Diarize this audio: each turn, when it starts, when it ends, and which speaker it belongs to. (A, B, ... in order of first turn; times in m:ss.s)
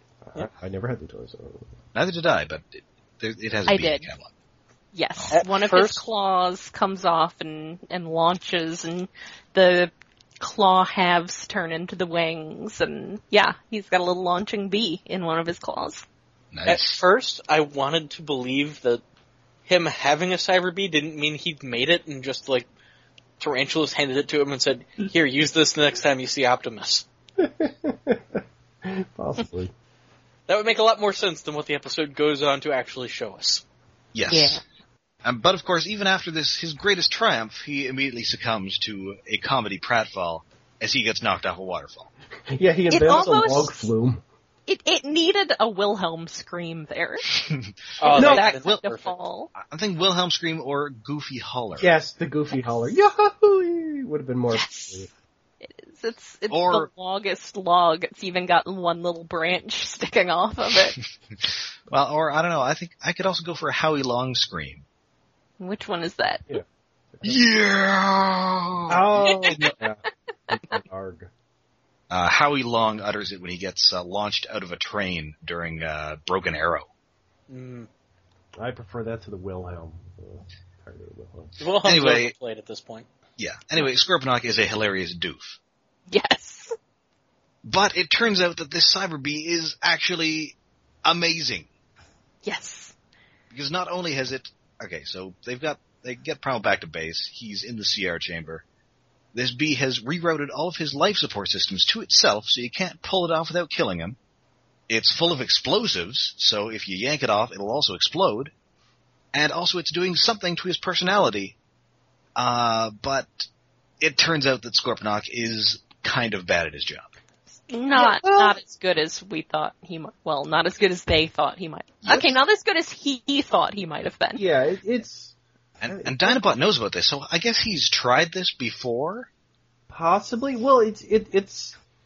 0:00.2-0:01.7 A
0:01.9-0:04.3 B
0:03.7-0:04.1 C
0:04.9-0:16.0 C
0:05.3-0:06.0 D
0:16.5-0:17.0 B
0:16.6-0:19.0 D
0:19.7-0:22.7 D
0:23.4-0:27.0 D
0:27.4-0:29.7 A
0:30.5-0:33.6 D
0:34.1-0:34.6 B
0:34.3-0:34.6 C
0:35.2-0:42.1 B
0:42.5-0:44.2 A
0:42.9-0:43.7 C
0:44.7-0:47.2 C
0:47.3-0:48.4 B
0:48.0-0:49.1 D
0:48.1-0:49.5 C
0:48.1-0:48.4 A
0:49.5-0:51.9 B
0:51.8-0:55.1 A
0:54.5-0:55.1 C
0:55.6-1:01.0 C
0:56.5-0:56.9 B
1:01.4-1:04.8 B
1:05.6-1:06.6 C
1:06.5-1:07.4 A
1:07.2-1:09.8 B
1:08.9-1:11.3 A
1:09.4-1:09.7 C
1:12.1-1:16.9 B
1:17.5-1:17.9 D
1:18.6-1:21.6 A
1:21.6-1:23.1 D
1:21.8-1:22.3 B
1:23.4-1:25.6 B
1:26.1-1:26.7 C
1:27.6-1:31.7 B
1:32.4-1:32.9 C
1:33.5-1:38.6 B
1:39.3-1:44.2 B
1:44.9-1:48.5 B
1:49.3-1:51.6 B
1:52.4-1:53.4 B
1:54.0-1:57.1 B
1:57.7-2:04.4 C
1:57.9-1:58.5 A
2:02.0-2:02.3 B
2:04.4-2:05.3 A
2:05.8-2:09.3 B
2:05.9-2:06.5 A
2:09.9-2:11.8 A